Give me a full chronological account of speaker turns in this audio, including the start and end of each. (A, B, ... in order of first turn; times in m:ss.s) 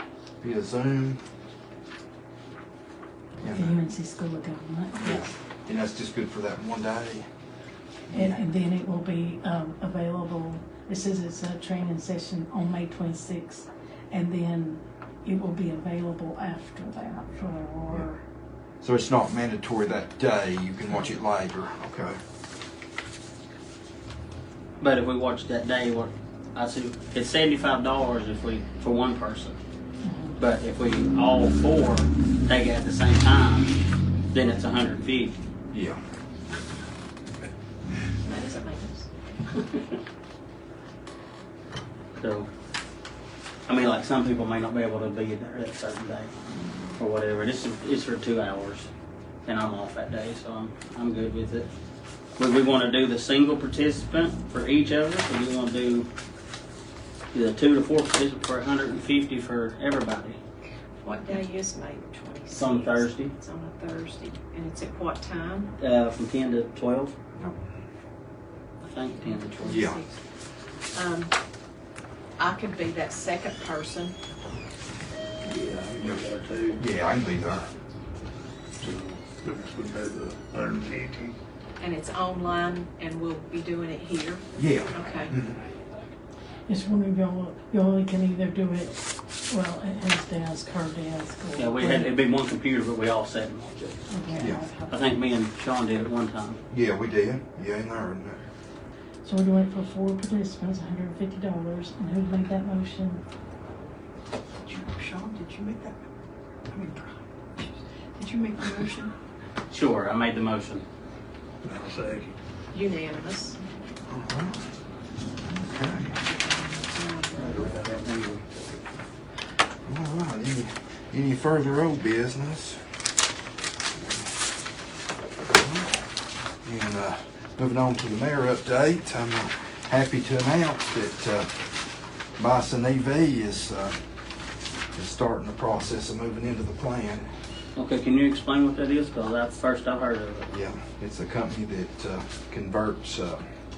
0:00.4-0:01.2 A
0:03.4-0:03.8 A
0:03.4-0:05.4 B
0:05.0-0:07.3 A
0:08.1-0:08.4 A
0:08.1-0:18.2 B
0:18.8-0:22.2 A
0:24.8-0:29.6 C
0:30.0-0:30.4 B
0:30.4-0:33.8 C
0:34.3-0:35.4 C
0:35.7-0:36.0 A
0:38.2-0:39.1 D
0:42.2-0:42.5 C
0:43.7-0:46.3 C
0:47.0-0:48.9 C
0:49.4-0:51.7 C
0:52.4-0:56.1 C
0:57.3-1:00.4 C
1:01.0-1:05.7 D
1:02.5-1:03.3 C
1:05.8-1:07.1 C
1:08.8-1:09.9 C
1:09.2-1:10.2 D
1:09.6-1:10.0 A
1:10.9-1:11.3 D
1:12.4-1:14.2 D
1:15.4-1:16.8 E
1:16.8-1:17.7 A
1:18.8-1:21.4 E
1:21.8-1:25.3 D
1:24.6-1:25.6 A
1:26.7-1:32.2 B
1:31.6-1:34.0 C
1:34.1-1:35.1 B
1:34.4-1:34.7 A
1:34.9-1:36.6 C
1:36.7-1:38.4 A
1:39.2-1:43.2 B
1:44.7-1:46.0 F
1:46.7-1:49.1 F
1:49.7-1:50.8 C
1:51.6-1:52.4 E
1:52.7-1:53.6 D
1:54.1-1:54.6 A
1:55.4-1:56.2 A
1:56.2-1:57.7 D
1:57.3-1:58.6 C
1:59.8-2:02.8 A
2:05.4-2:06.0 A
2:06.6-2:11.6 A
2:12.4-2:14.0 A
2:14.9-2:17.3 A
2:17.8-2:20.5 C
2:20.5-2:23.4 A